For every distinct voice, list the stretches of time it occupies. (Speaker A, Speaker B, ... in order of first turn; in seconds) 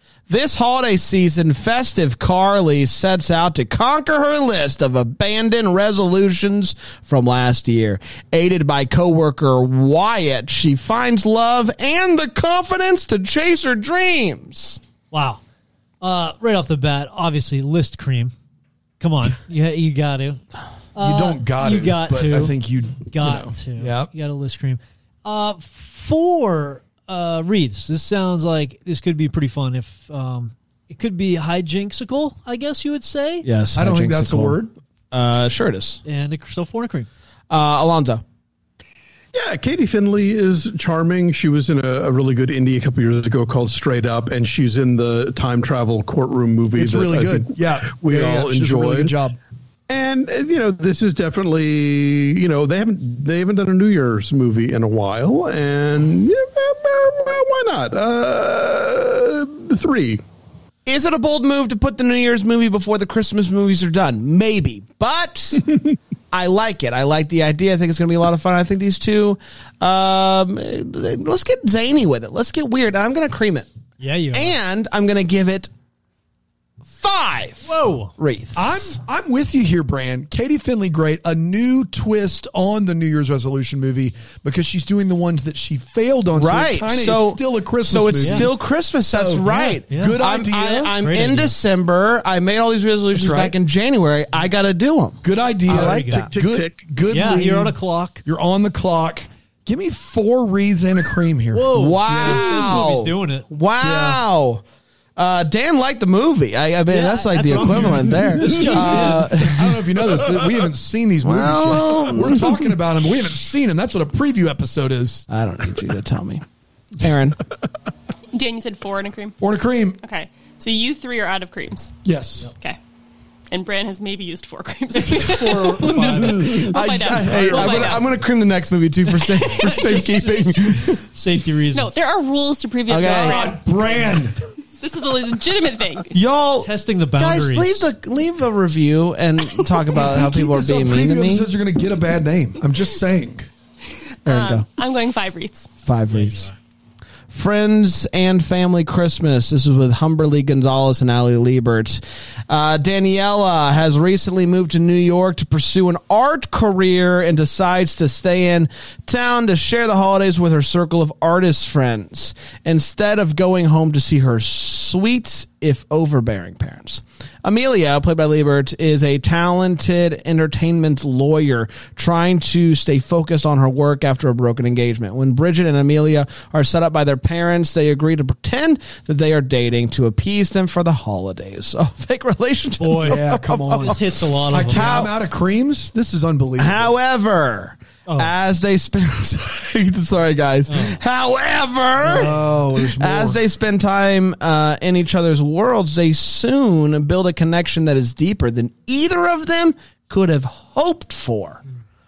Speaker A: 0.3-14.8, 33.4-34.6, 35.1-36.0, 37.5-38.2, 60.9-65.7, 66.3-73.7, 74.3-75.7, 77.0-79.0, 86.3-96.3, 101.7-104.6, 105.2-109.8, 111.2-112.6, 115.3-116.4, 116.9-117.4, 126.3-131.0, 132.9-133.5, 136.1-141.5, 144.2-144.7, 145.8-146.5, 147.3-185.1, 186.6-192.4, 193.0-201.6
Speaker B: 15.1-15.4, 16.0-18.3, 19.0-20.4, 20.9-33.5, 36.0-37.1, 74.0-74.5, 77.6-78.1, 88.2-88.5, 89.5-90.2, 90.9-91.6, 95.7-96.3, 97.1-98.2, 101.5-103.5, 106.9-109.5, 124.9-126.7, 129.6-131.9, 136.6-137.9, 146.1-146.5, 182.8-185.1, 188.1-188.3, 190.7-191.0, 192.1-192.4
Speaker C: 21.0-24.1, 33.7-34.7, 46.7-49.4, 78.5-88.5, 89.1-90.9, 93.1-93.5, 95.2-102.7, 103.8-104.2, 108.5-115.2, 119.4-120.0, 122.0-122.5, 133.0-134.4, 139.9-143.5, 183.0-186.9, 192.0-193.4
Speaker D: 39.3-49.1, 49.9-60.2, 96.1-96.8, 108.4-108.8, 126.0-126.5, 127.2-127.8
Speaker E: 118.3-119.4, 120.0-122.0, 123.5-128.1, 129.1-130.1, 131.7-133.6, 134.8-136.1, 144.2-145.7